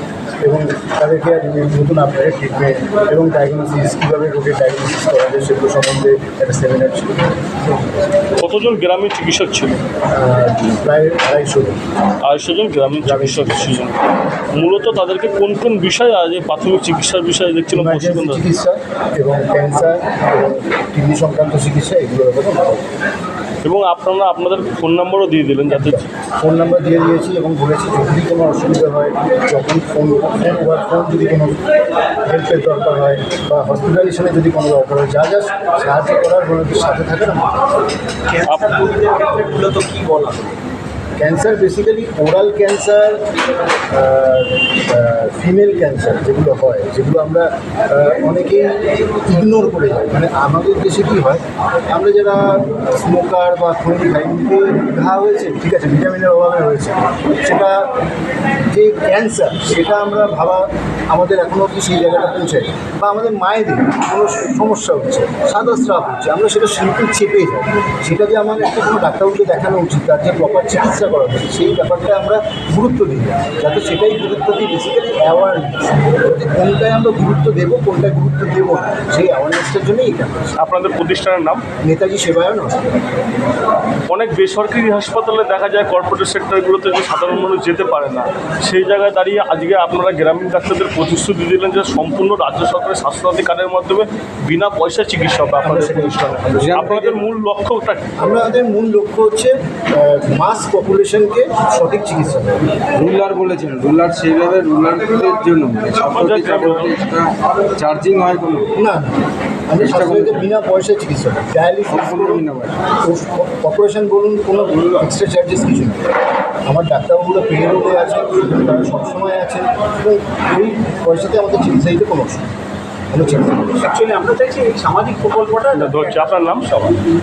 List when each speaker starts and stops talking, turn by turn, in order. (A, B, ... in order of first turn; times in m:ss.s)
0:00.4-0:07.8 A
0:08.4-0:09.8 B
0:10.1-0:11.8 A
0:12.2-0:14.0 B
0:13.0-0:13.8 A
0:14.5-0:18.4 B
0:17.7-0:22.8 A
0:23.6-0:26.0 B
0:25.7-0:31.6 A
0:32.2-0:37.6 A
0:38.3-0:40.5 C
0:38.4-0:38.9 B
0:41.2-0:43.2 A
0:43.9-0:57.9 A
0:58.7-1:20.5 A
1:20.6-1:21.6 B
1:21.8-1:23.0 A
1:24.1-1:38.1 B
1:35.6-1:36.7 A
1:36.6-1:37.2 D
1:38.2-1:42.6 A
1:42.9-1:48.7 D
1:46.0-1:46.9 B
1:48.8-1:52.4 A
1:49.8-1:50.4 D
1:51.9-1:52.8 D
1:53.0-1:56.1 A
1:56.6-2:02.5 A
2:03.1-2:03.8 A
2:03.8-2:07.0 C
2:05.7-2:06.6 B